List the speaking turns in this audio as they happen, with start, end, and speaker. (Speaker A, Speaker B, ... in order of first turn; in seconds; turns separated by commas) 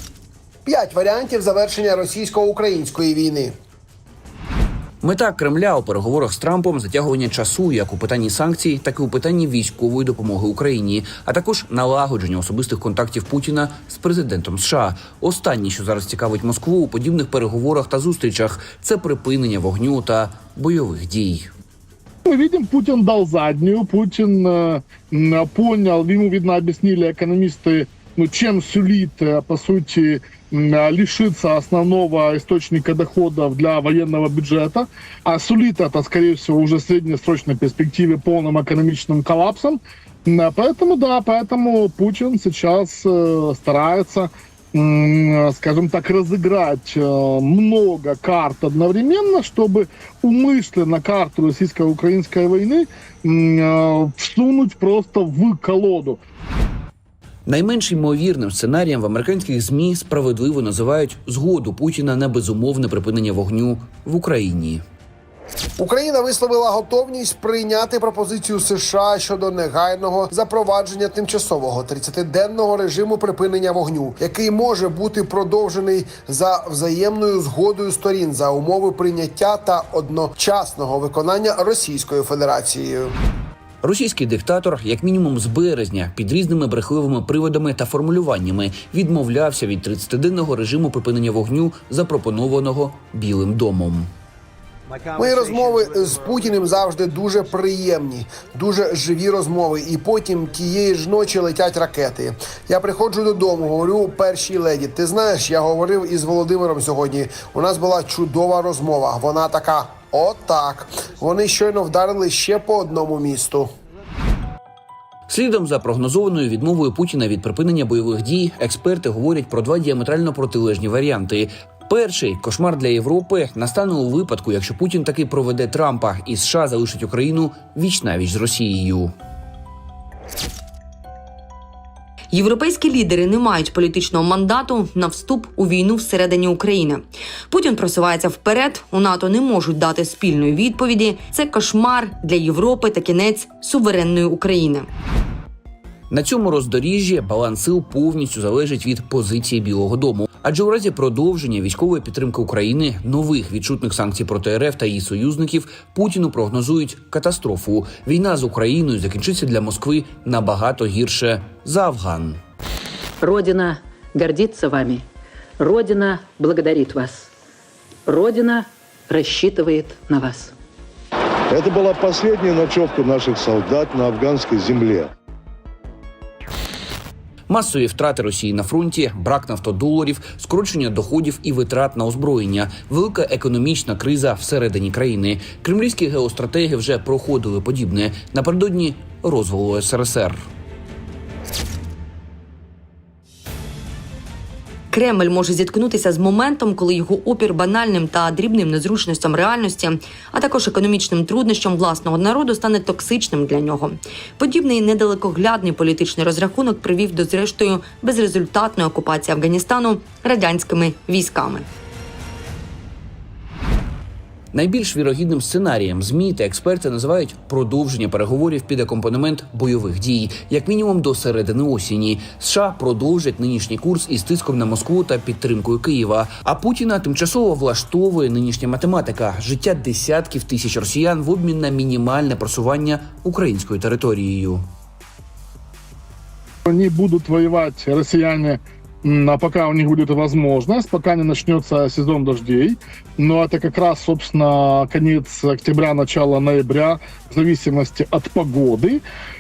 Speaker A: 0.7-3.5, Speaker B: 5.0-21.5, Speaker C: 22.2-56.2, Speaker B: 57.5-64.8, Speaker A: 65.8-83.1, Speaker B: 83.8-94.1, Speaker A: 95.2-113.7, Speaker B: 115.3-129.1, Speaker D: 132.3-144.9, Speaker B: 146.1-162.4, Speaker E: 163.2-165.0, Speaker E: 165.6-167.1, Speaker E: 168.1-170.5, Speaker F: 171.5-175.1, Speaker B: 177.5-190.4, Speaker D: 194.9-211.7, Speaker B: 214.5-234.6, Speaker C: 236.7-249.0